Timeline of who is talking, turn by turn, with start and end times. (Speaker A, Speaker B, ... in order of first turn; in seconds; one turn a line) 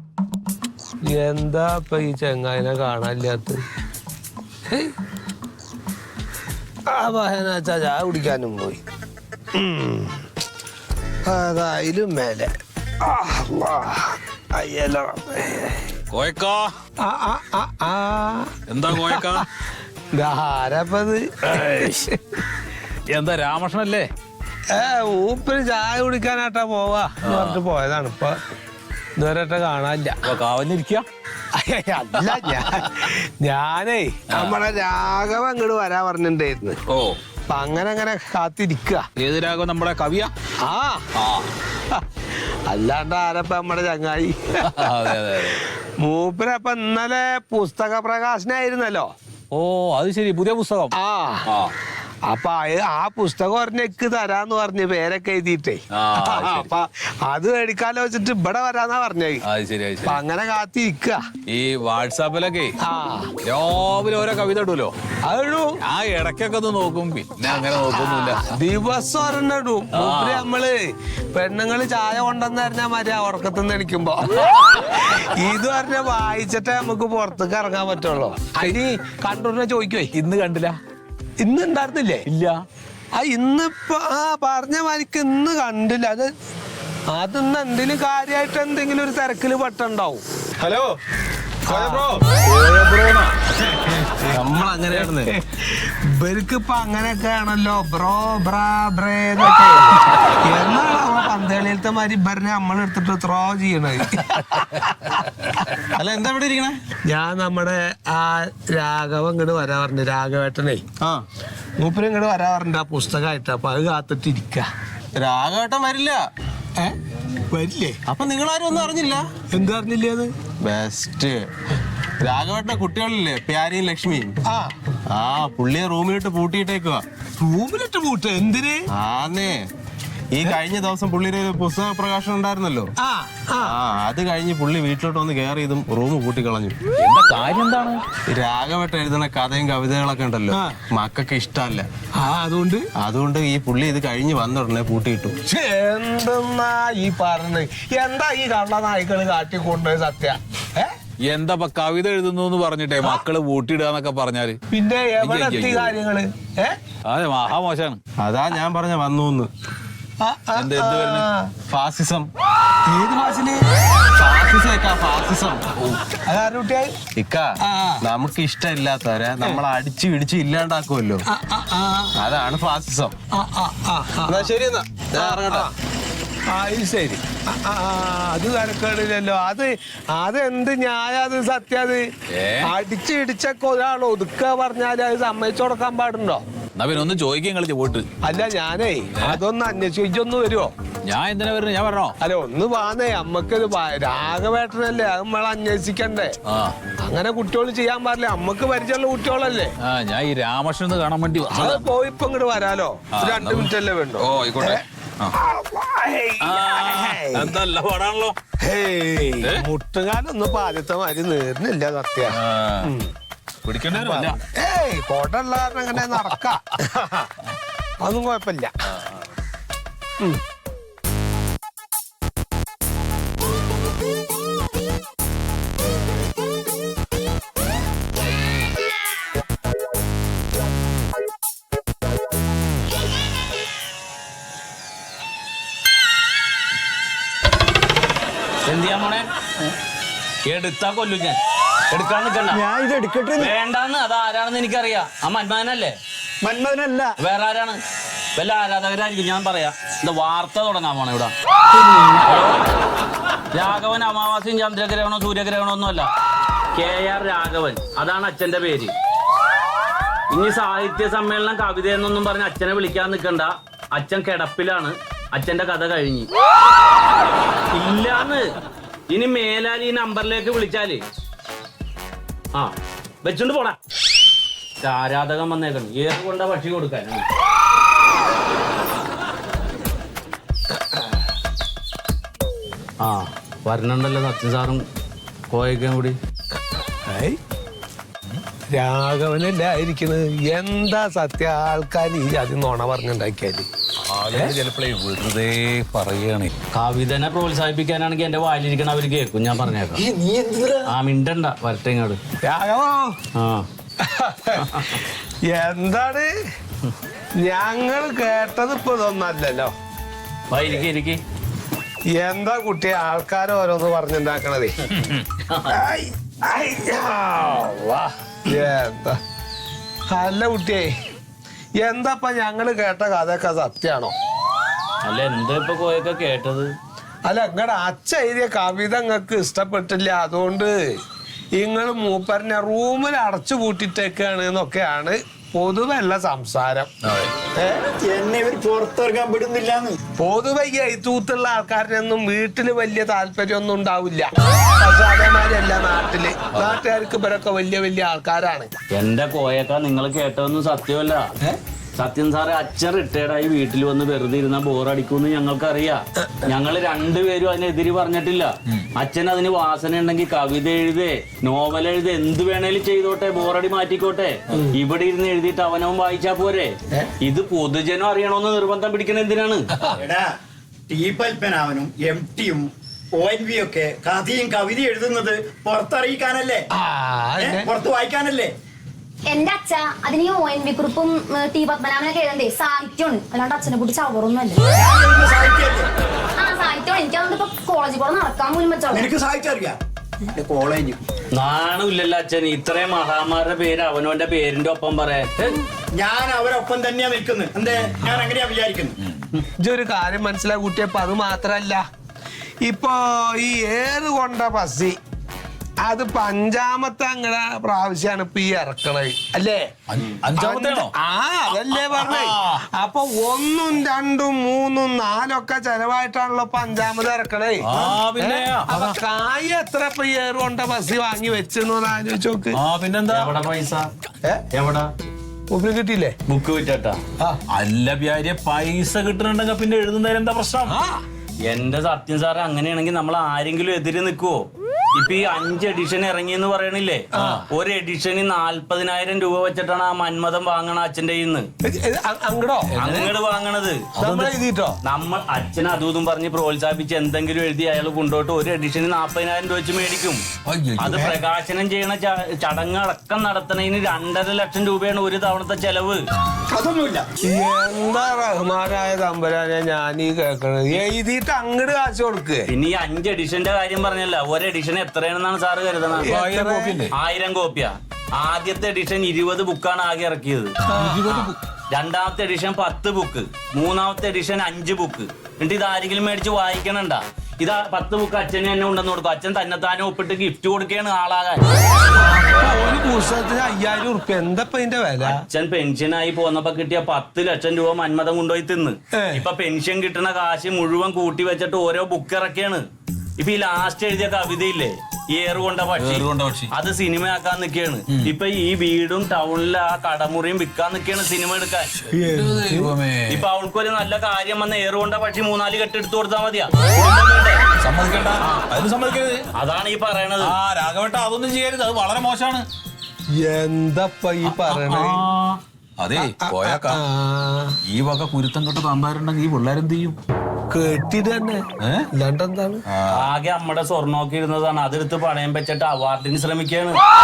Speaker A: 1.0-3.6
Speaker A: 6.9-8.8
Speaker A: 9.5-10.3
Speaker A: 11.2-15.9
Speaker B: 16.1-16.7
Speaker A: 17.0-19.4
Speaker B: 18.7-19.4
Speaker A: 20.1-22.2
Speaker B: 21.4-22.0
Speaker B: 23.1-24.1
Speaker A: 24.7-28.4
Speaker B: 27.2-27.6
Speaker A: 29.2-30.3
Speaker B: 30.2-31.1
Speaker A: 31.5-36.8
Speaker B: 32.2-32.9
Speaker B: 34.3-34.6
Speaker B: 36.9-37.2
Speaker A: 37.5-39.0
Speaker B: 39.2-40.3
Speaker A: 40.6-41.0
Speaker B: 41.2-41.5
Speaker A: 42.7-49.1
Speaker B: 44.6-45.6
Speaker B: 49.5-50.9
Speaker A: 50.9-51.5
Speaker B: 51.5-51.7
Speaker A: 52.2-59.4
Speaker B: 55.9-56.7
Speaker B: 59.5-60.2
Speaker A: 60.0-61.2
Speaker B: 61.5-62.7
Speaker A: 62.8-63.3
Speaker B: 63.4-64.9
Speaker A: 65.3-65.7
Speaker B: 65.9-68.6
Speaker A: 67.9-80.1
Speaker B: 69.9-70.5
Speaker B: 80.1-80.8
Speaker A: 81.4-82.3
Speaker B: 82.3-82.6
Speaker A: 83.2-86.3
Speaker A: 87.1-90.2
Speaker A: 91.7-92.2
Speaker B: 91.7-93.5
Speaker C: 94.2-95.3
Speaker A: 94.9-105.6
Speaker C: 105.9-106.8
Speaker A: 107.1-110.8
Speaker A: 111.8-114.7
Speaker C: 115.2-116.3
Speaker A: 117.5-118.0
Speaker C: 118.1-119.3
Speaker A: 119.5-120.3
Speaker C: 120.6-121.5
Speaker C: 122.2-124.4
Speaker A: 124.5-124.7
Speaker C: 125.1-127.0
Speaker A: 127.4-128.9
Speaker C: 128.9-129.7
Speaker C: 130.3-132.9
Speaker A: 133.0-133.8
Speaker C: 133.6-136.8
Speaker B: 137.0-138.0
Speaker C: 138.3-141.9
Speaker A: 140.5-140.8
Speaker A: 142.2-142.9
Speaker C: 143.0-145.3
Speaker A: 145.4-150.9
Speaker B: 151.3-154.6
Speaker A: 154.7-156.8
Speaker B: 155.2-155.9
Speaker B: 157.1-158.0
Speaker C: 158.2-159.5
Speaker A: 160.2-161.5
Speaker B: 160.6-161.3
Speaker C: 161.7-162.3
Speaker A: 162.8-163.6
Speaker C: 164.2-165.6
Speaker A: 166.2-166.9
Speaker C: 167.2-167.5
Speaker A: 167.6-168.0
Speaker C: 168.0-171.2
Speaker A: 171.3-172.2
Speaker C: 172.2-173.2
Speaker A: 173.3-174.5
Speaker C: 174.3-175.7
Speaker A: 175.1-175.7
Speaker A: 176.5-182.1
Speaker B: 182.3-182.7
Speaker A: 182.6-186.4
Speaker B: 186.8-188.1
Speaker A: 188.2-190.7
Speaker B: 191.1-192.1
Speaker A: 192.2-196.3
Speaker B: 196.5-196.8
Speaker A: 197.0-199.7
Speaker B: 199.8-201.8
Speaker A: 201.5-207.6
Speaker B: 203.1-205.3
Speaker B: 206.4-208.3
Speaker A: 208.6-213.1
Speaker B: 212.3-212.9
Speaker B: 213.7-214.4
Speaker A: 213.9-217.3
Speaker A: 218.0-218.7
Speaker D: 238.7-239.3
Speaker D: 240.5-241.4
Speaker D: 241.9-242.6
Speaker E: 242.6-243.5
Speaker D: 243.4-246.0
Speaker E: 246.4-247.2
Speaker D: 247.2-247.8
Speaker D: 248.3-252.6
Speaker D: 253.5-256.1
Speaker D: 256.7-258.9
Speaker D: 260.3-266.3
Speaker D: 267.7-268.4
Speaker D: 269.1-271.0
Speaker D: 272.5-273.8
Speaker D: 274.8-277.2
Speaker D: 283.0-284.8
Speaker D: 285.5-286.2
Speaker A: 287.0-287.4
Speaker A: 288.7-293.7
Speaker B: 294.1-296.5
Speaker A: 294.3-294.6
Speaker D: 296.7-300.1
Speaker C: 300.2-300.6
Speaker D: 300.9-302.2
Speaker A: 302.4-303.2
Speaker D: 303.3-303.7
Speaker A: 304.0-306.3
Speaker D: 304.6-305.0
Speaker A: 307.4-309.7
Speaker D: 310.5-311.2
Speaker A: 312.1-314.9
Speaker D: 314.9-315.7
Speaker A: 315.7-319.2
Speaker A: 320.1-320.9
Speaker A: 321.8-324.1
Speaker D: 325.0-326.7
Speaker A: 327.3-331.0
Speaker A: 331.6-336.9
Speaker B: 337.0-337.3
Speaker A: 337.5-337.8
Speaker E: 338.0-340.0
Speaker A: 340.2-348.7
Speaker D: 348.9-351.3
Speaker D: 352.0-369.7
Speaker A: 356.2-356.5
Speaker E: 370.0-370.3
Speaker E: 370.9-376.6
Speaker A: 376.7-377.7
Speaker E: 377.4-378.5
Speaker F: 379.3-384.6
Speaker E: 384.7-385.9
Speaker F: 386.4-389.1
Speaker E: 389.0-389.8
Speaker E: 390.4-391.0
Speaker D: 391.3-395.6
Speaker E: 395.9-398.9
Speaker A: 399.6-401.8
Speaker A: 402.6-405.0
Speaker A: 405.8-409.7
Speaker B: 409.9-410.9
Speaker A: 410.3-423.3
Speaker B: 411.7-412.6
Speaker B: 417.6-418.9
Speaker B: 422.5-422.8
Speaker D: 423.1-423.9
Speaker D: 424.5-424.9
Speaker A: 425.5-426.1
Speaker D: 426.3-427.0
Speaker B: 427.5-430.8
Speaker A: 430.7-431.0
Speaker D: 431.4-434.4
Speaker D: 434.9-441.5
Speaker A: 437.1-437.4
Speaker B: 437.2-437.4
Speaker A: 441.6-443.1
Speaker D: 442.8-443.9
Speaker A: 444.0-444.8
Speaker B: 444.0-444.4
Speaker D: 444.8-450.2
Speaker B: 450.4-451.0
Speaker D: 450.8-456.0
Speaker A: 450.9-451.2
Speaker E: 456.5-457.1
Speaker A: 457.2-462.5
Speaker D: 462.5-466.1
Speaker A: 466.0-466.8
Speaker B: 466.1-466.9
Speaker D: 466.9-470.5
Speaker A: 470.7-471.1
Speaker B: 470.7-471.4
Speaker D: 471.1-481.5
Speaker A: 482.0-485.2
Speaker D: 485.0-492.6
Speaker A: 488.9-489.2
Speaker D: 493.2-501.7
Speaker B: 495.8-496.5
Speaker A: 501.9-502.8
Speaker B: 502.0-503.2
Speaker D: 503.1-507.4
Speaker B: 507.6-509.2
Speaker D: 509.4-510.3
Speaker B: 510.2-512.5
Speaker A: 513.1-515.0
Speaker B: 514.2-516.8
Speaker A: 516.0-517.6
Speaker B: 517.7-520.0
Speaker A: 520.5-521.4
Speaker B: 521.6-521.9
Speaker A: 521.9-522.6
Speaker B: 522.7-523.1
Speaker D: 523.0-526.8